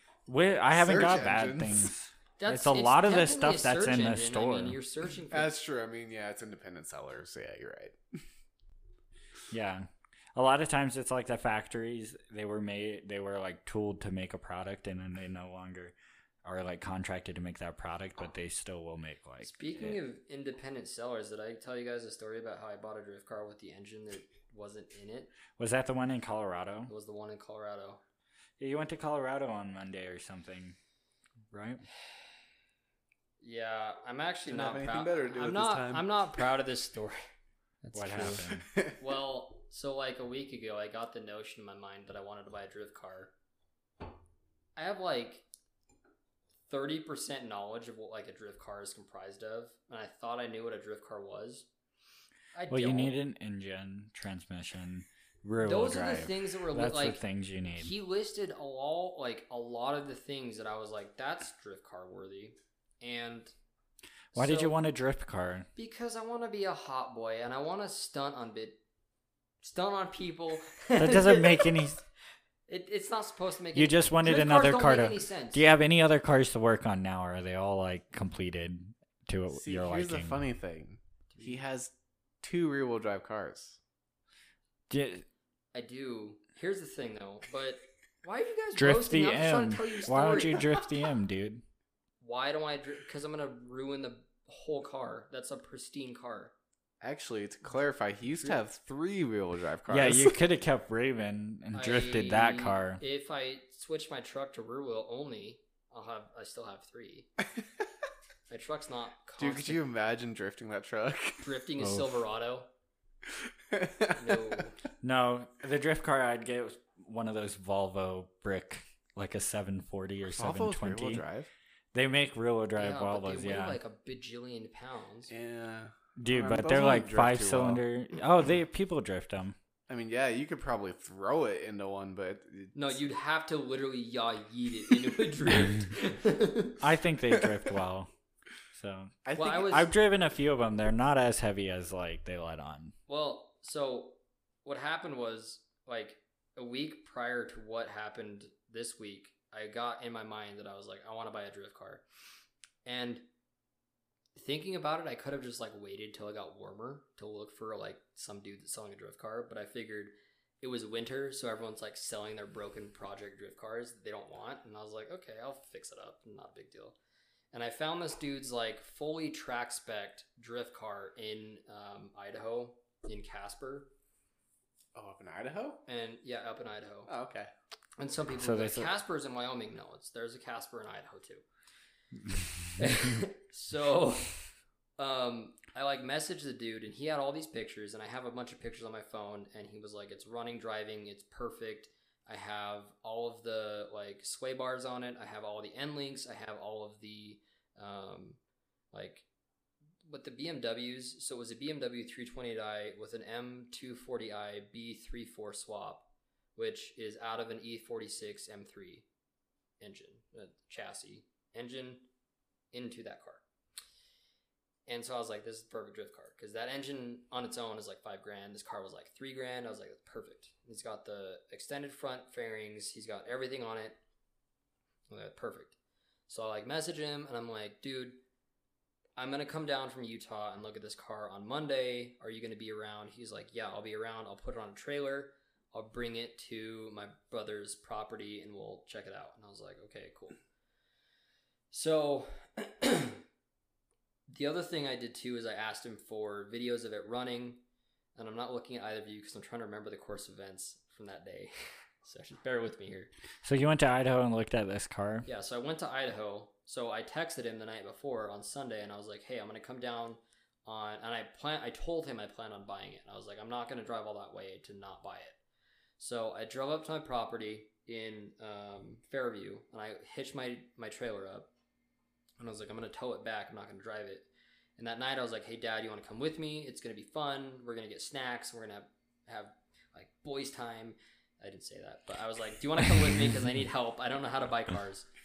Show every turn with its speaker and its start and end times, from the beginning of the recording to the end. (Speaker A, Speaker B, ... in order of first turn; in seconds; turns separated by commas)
Speaker A: 0.3-4.8, Speaker B: 0.7-1.9, Speaker C: 2.4-5.5, Speaker B: 5.3-8.0, Speaker A: 9.5-20.0, Speaker C: 19.4-25.3, Speaker A: 25.6-26.9, Speaker C: 26.9-28.0, Speaker A: 28.6-30.8, Speaker A: 31.5-31.8, Speaker C: 33.4-37.2, Speaker B: 34.5-36.2, Speaker C: 37.8-43.3, Speaker A: 37.9-38.6, Speaker B: 38.2-39.0, Speaker C: 44.8-45.5, Speaker C: 46.7-51.7, Speaker C: 52.5-53.2, Speaker A: 52.7-57.9, Speaker C: 55.6-57.2, Speaker C: 57.8-63.5, Speaker C: 64.3-64.8, Speaker A: 64.3-65.7, Speaker C: 65.8-68.8, Speaker C: 69.6-71.8, Speaker A: 71.0-72.0, Speaker C: 72.7-75.6, Speaker A: 73.8-80.4, Speaker B: 79.5-83.8, Speaker C: 81.3-81.6, Speaker A: 84.9-85.3, Speaker C: 85.7-90.8, Speaker A: 88.8-91.6, Speaker C: 92.2-96.5, Speaker B: 97.0-100.4, Speaker A: 99.9-103.0, Speaker C: 101.7-107.3, Speaker C: 108.5-109.8, Speaker B: 109.4-111.5, Speaker C: 111.4-112.7, Speaker A: 111.8-112.1, Speaker B: 113.7-114.6, Speaker C: 114.2-114.8, Speaker A: 115.0-121.2, Speaker B: 120.3-121.5, Speaker A: 121.9-123.8, Speaker C: 122.8-125.3, Speaker B: 125.3-127.8, Speaker A: 126.2-129.6, Speaker B: 129.9-133.0, Speaker C: 132.7-136.8, Speaker A: 136.8-138.1, Speaker A: 138.7-142.9, Speaker B: 139.3-139.8, Speaker C: 139.3-139.9, Speaker C: 143.1-152.0, Speaker C: 152.8-153.3, Speaker C: 154.3-167.0, Speaker C: 167.5-173.9, Speaker B: 174.9-175.8, Speaker C: 175.9-177.1, Speaker B: 177.1-177.5, Speaker C: 178.0-181.4, Speaker A: 178.4-178.9, Speaker C: 182.8-184.4, Speaker C: 185.0-198.4, Speaker C: 198.9-199.3, Speaker C: 200.1-209.1, Speaker C: 209.8-212.1, Speaker C: 212.7-213.4, Speaker C: 214.9-224.0, Speaker C: 225.1-225.8, Speaker C: 226.3-228.2, Speaker C: 229.2-240.4, Speaker C: 241.7-243.2, Speaker C: 244.3-247.6, Speaker C: 248.2-253.1, Speaker A: 253.4-255.3, Speaker C: 255.3-265.4, Speaker C: 266.0-271.5, Speaker C: 272.4-285.1